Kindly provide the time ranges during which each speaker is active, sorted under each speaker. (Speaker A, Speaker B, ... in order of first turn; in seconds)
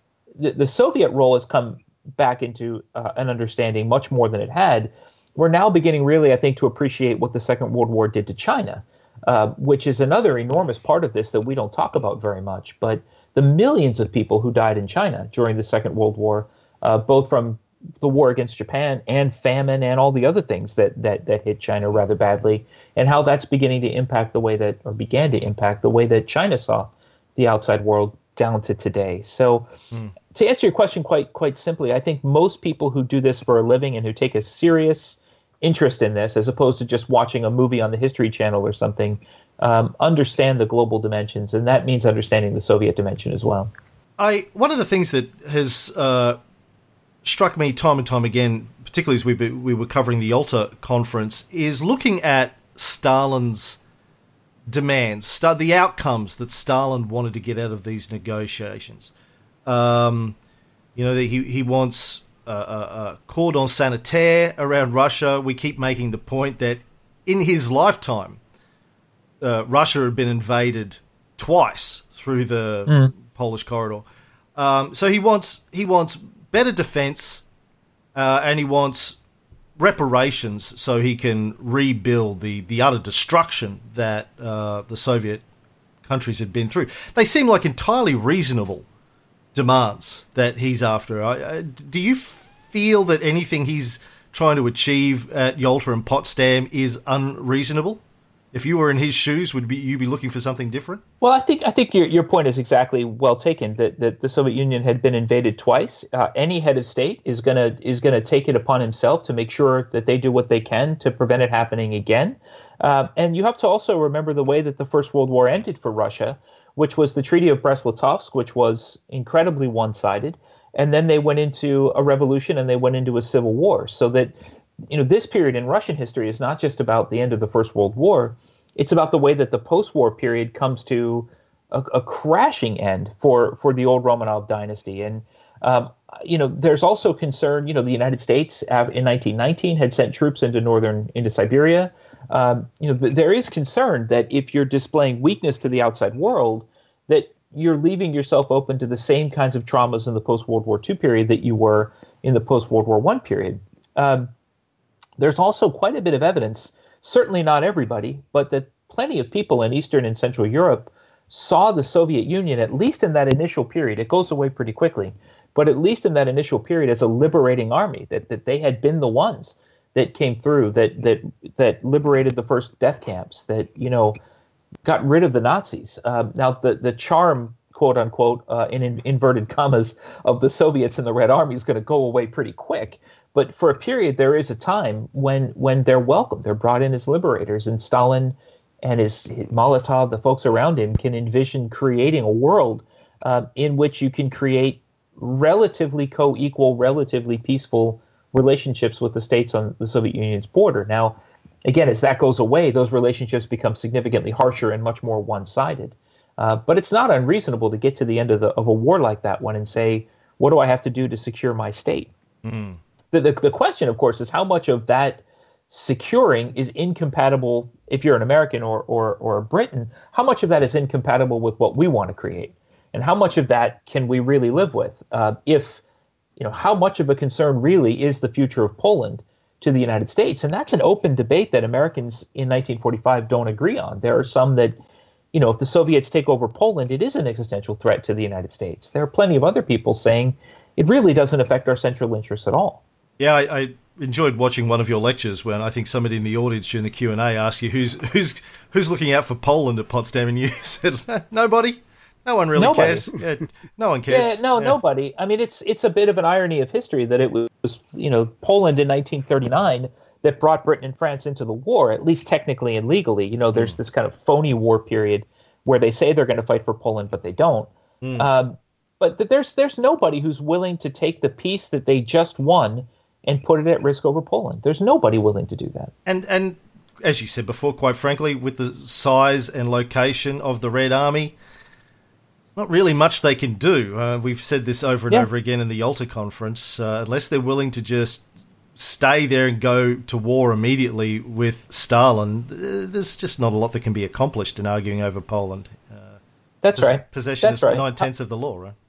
Speaker A: 0.4-29.7, 30.3-43.7, 72.9-73.1, 101.2-124.3, 124.9-154.3, 155.2-174.2, 174.8-212.1, 213.1-225.8, 226.4-234.8, 235.3-242.8, 252.6-253.1, 254.1-275.9, 296.6-298.1
Speaker B: 44.2-46.4, 47.2-53.8, 54.7-59.1, 59.7-60.4, 61.0-68.4, 69.4-77.5, 78.2-79.2, 79.8-85.4, 86.0-88.9, 89.5-98.0, 98.5-101.0, 212.4-212.8, 243.2-254.8, 268.0-268.3, 276.1-281.4, 282.6-296.2, 296.8-298.8